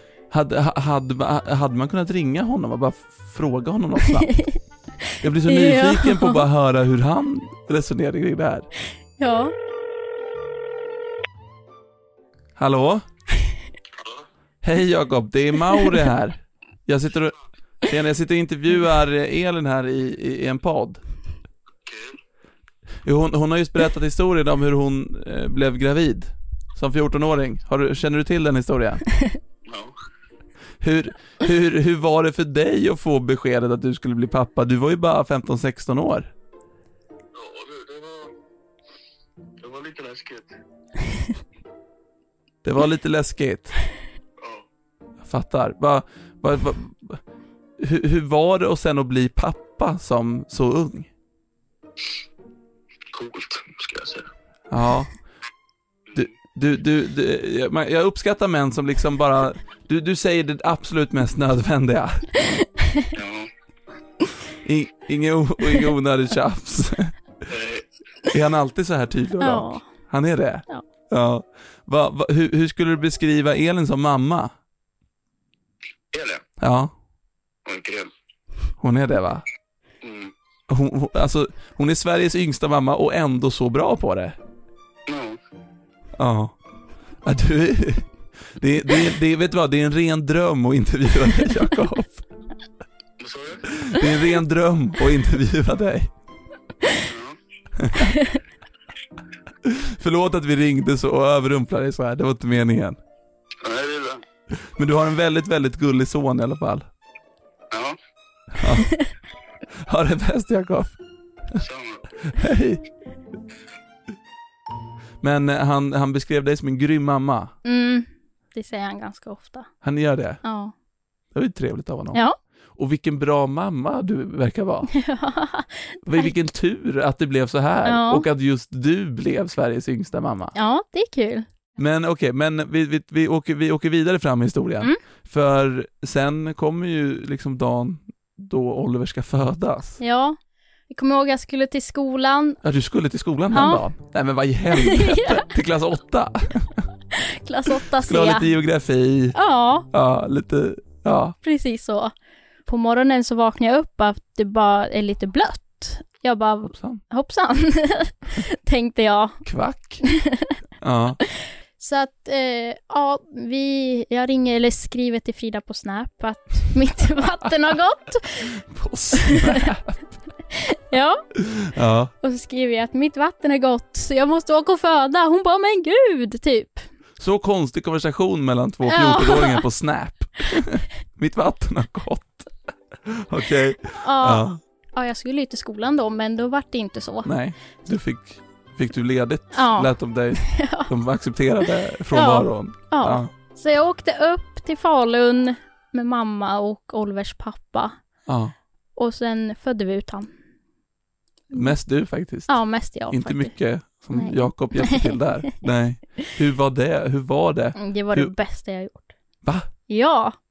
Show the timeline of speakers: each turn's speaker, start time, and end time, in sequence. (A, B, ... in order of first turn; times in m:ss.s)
0:00.3-0:04.4 A
0:04.1-0:04.6 B
0:05.2-0:08.7 A
0:05.4-0:06.4 B
0:09.2-0:09.5 B
0:12.6-0:13.0 A
0:14.0-0:14.2 C
0:14.6-0:21.0 A
0:21.8-0:22.2 C
0:23.0-0:29.0 A
0:29.7-0:29.9 C
0:30.8-0:36.3 A
0:37.3-0:38.3 C
0:39.6-0:40.5 C
0:42.6-0:43.8 A
0:45.2-0:47.2 A
0:47.8-0:51.1 A
0:53.1-0:54.3 C
0:54.7-0:55.1 A
0:56.2-1:02.3 A
1:02.5-1:03.1 B
1:03.1-1:03.5 C
1:04.6-1:07.5 A
1:07.5-1:07.8 C
1:08.3-1:14.5 A
1:09.4-1:09.9 B
1:16.1-1:16.4 C
1:16.6-1:16.9 A
1:17.7-1:18.1 C
1:18.8-1:19.4 A
1:20.0-1:20.3 C
1:20.7-1:24.4 A
1:25.1-1:25.4 C
1:26.2-1:26.6 A
1:27.2-1:32.2 A
1:33.2-1:33.9 C
1:33.8-1:36.1 A
1:37.0-1:37.4 C
1:37.8-1:38.1 A
1:39.6-1:43.0 A
1:43.6-1:44.2 C
1:44.5-1:46.8 A
1:47.7-1:48.0 C
1:48.5-1:49.0 A
1:49.8-1:51.0 A
1:51.6-1:52.4 C
1:52.3-1:52.8 A
1:55.2-1:57.5 A
1:57.6-1:59.7 B
1:59.8-2:00.4 A
2:00.4-2:00.7 B
2:01.3-2:02.2 A
2:02.8-2:04.9 A
2:04.9-2:06.4 B
2:06.0-2:10.5 A
2:07.8-2:08.3 B
2:10.6-2:11.5 B
2:11.8-2:20.0 A
2:20.0-2:20.4 B
2:20.9-2:22.6 B
2:22.6-2:26.9 A
2:23.5-2:23.8 B
2:24.7-2:25.4 B
2:27.1-2:28.5 B
2:27.8-2:29.4 A
2:29.4-2:29.9 B
2:29.9-2:31.4 A
2:31.4-2:32.1 B
2:32.7-2:39.4 B
2:36.7-2:37.0 A
2:39.4-2:40.0 A
2:40.0-2:40.5 B
2:40.8-2:41.2 A
2:41.4-2:48.6 B
2:48.6-2:50.0 A
2:49.1-2:49.7 B
2:50.5-2:51.2 B
2:51.4-2:52.1 A
2:52.2-2:56.9 B
2:57.2-3:02.5 A
2:58.9-2:59.6 B
3:03.0-3:04.6 A
3:03.9-3:07.3 B
3:07.2-3:13.3 A
3:09.5-3:10.9 B
3:12.1-3:18.0 B
3:18.3-3:18.5 A
3:19.0-3:20.3 B
3:21.5-3:28.3 A
3:22.5-3:23.6 B
3:24.1-3:25.5 B
3:27.8-3:29.1 B
3:29.4-3:29.7 A
3:29.9-3:30.4 B